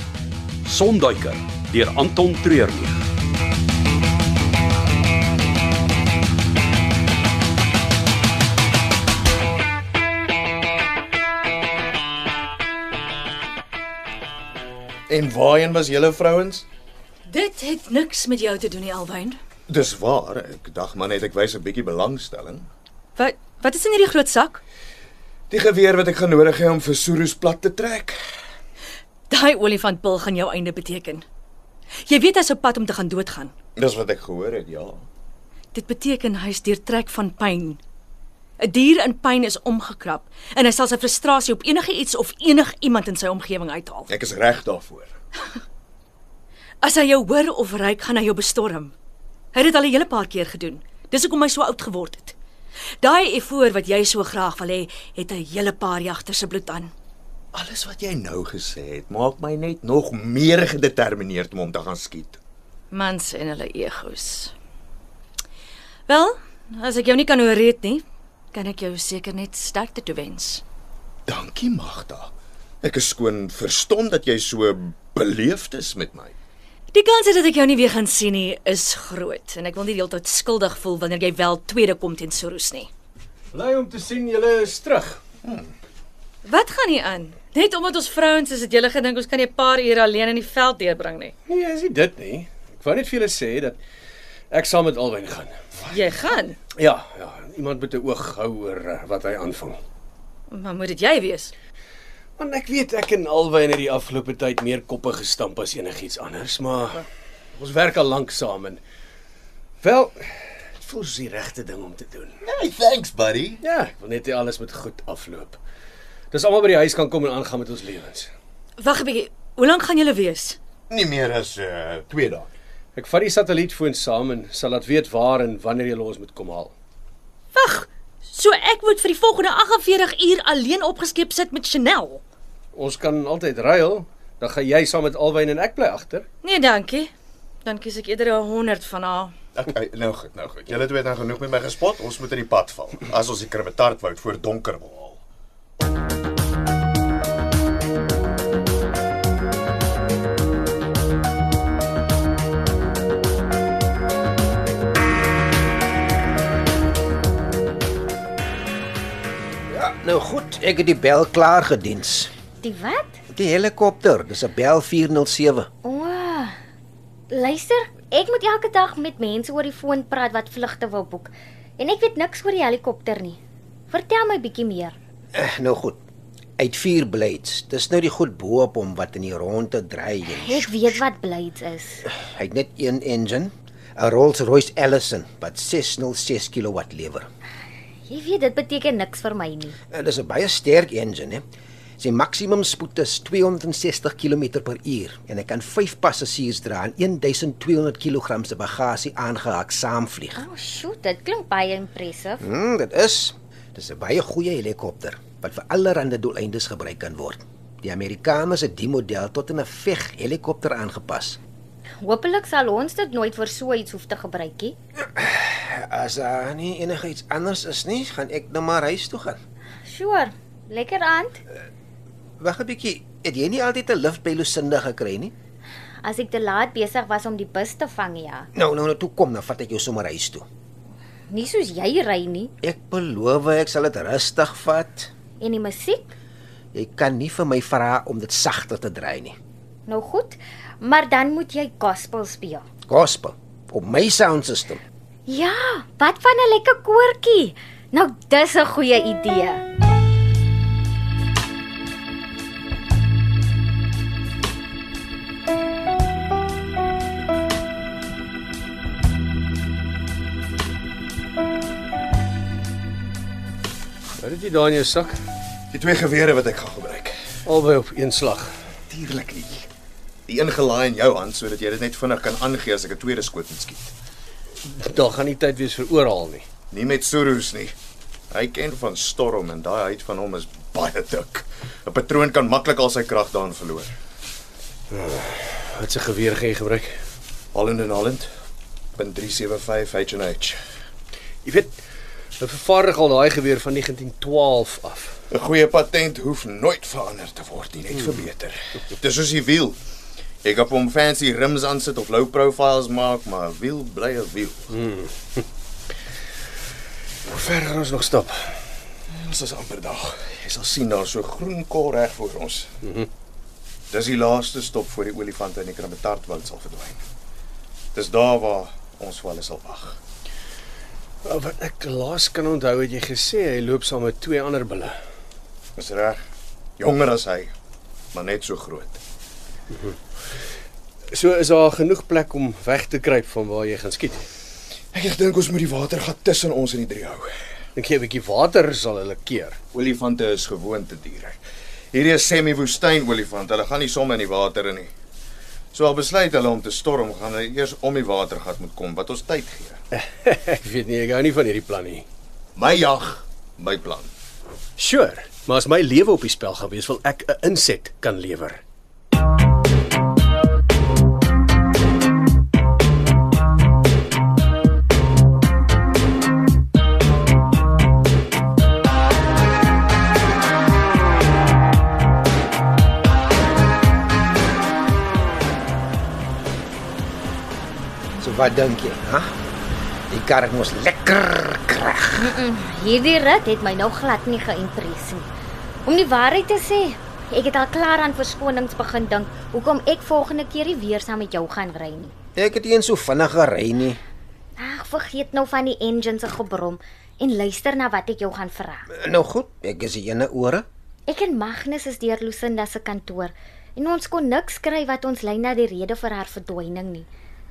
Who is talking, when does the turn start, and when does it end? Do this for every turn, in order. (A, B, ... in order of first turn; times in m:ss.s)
0:00.6-0:03.0 A
0:15.1-0:16.7 B
0:17.3-0:19.4 C
0:19.7-0:22.7 B
0:23.2-0:24.6 C
0:25.5-0:28.2 B
0:29.3-0:31.2 C
0:32.1-0:33.5 C
0:33.8-0:35.0 B
0:35.7-0:37.8 C
0:38.6-0:44.1 C
0:44.1-0:45.1 B
0:46.8-0:49.0 C
0:49.5-0:52.4 C
0:53.0-0:56.9 C
0:57.5-1:02.4 B
1:02.9-1:04.5 C
1:06.1-1:10.6 C
1:11.3-1:16.4 B
1:16.9-1:22.9 C
1:23.5-1:25.2 D
1:25.4-1:25.7 B
1:26.4-1:31.3 C
1:31.5-1:33.8 D
1:34.5-1:35.5 D
1:35.9-1:36.6 C
1:36.8-1:39.8 D
1:40.5-1:41.5 C
1:42.4-1:48.8 D
1:49.8-1:52.3 D
1:52.4-1:53.6 B
1:53.6-1:55.6 D
1:56.3-1:58.3 D
1:58.8-2:00.6 C
2:00.9-2:02.5 B
2:03.0-2:06.7 D
2:07.6-2:12.2 C
2:12.8-2:16.3 D
2:16.4-2:17.1 C
2:17.6-2:19.3 C
2:19.6-2:25.2 B
2:39.7-2:42.3 E
2:42.6-2:43.2 F
2:43.3-2:45.7 E
2:45.8-2:46.6 F
2:47.3-2:53.4 F
2:53.9-2:55.0 F
2:55.3-2:56.0 E
2:56.6-3:00.7 E
3:00.3-3:02.0 F
3:02.0-3:07.3 E
3:08.1-3:09.8 F
3:09.9-3:11.4 E
3:12.0-3:20.4 E
3:20.4-3:22.4 F
3:22.4-3:31.4 E
3:32.0-3:34.8 F
3:35.0-3:39.4 E
3:39.8-3:41.4 F
3:42.4-3:45.3 E
3:46.0-3:48.5 F
3:48.6-3:50.4 E
3:51.3-3:52.5 F
3:52.6-3:55.1 E
3:55.4-3:56.1 F
3:56.7-3:59.4 E
3:59.9-4:02.6 F
4:02.9-4:04.8 E
4:05.3-4:09.6 F
4:24.2-4:25.2 D
4:25.7-4:27.2 B
4:27.5-4:28.5 D
4:28.9-4:29.7 B
4:30.3-4:33.9 B
4:34.6-4:36.5 D
4:36.7-4:37.8 B
4:38.3-4:43.9 B
4:44.9-4:46.9 D
4:47.5-4:48.3 B
4:49.0-4:50.6 B
4:51.4-4:51.8 D
4:52.4-4:55.2 D
4:55.3-4:59.8 B
5:00.4-5:04.7 B
5:04.7-5:05.4 D
5:07.3-5:08.6 D
5:09.1-5:12.7 B
5:13.9-5:17.0 B
5:18.0-5:20.0 B
5:21.2-5:25.0 D
5:25.8-5:26.2 B
5:26.8-5:27.5 B
5:28.1-5:29.0 B
5:31.1-5:34.3 D
5:34.9-5:37.3 B
5:37.8-5:39.6 D
5:39.7-5:41.4 B
5:41.9-5:44.9 B
5:45.7-5:49.8 B
5:49.9-5:52.0 D
5:52.6-5:54.1 B
5:54.8-5:58.6 D
6:18.2-6:19.3 E
6:20.1-6:22.3 E
6:22.2-6:25.3 F
6:25.9-6:32.2 F
6:32.4-6:34.0 E
6:34.6-6:38.9 F
6:38.9-6:40.7 E
6:41.1-6:47.1 F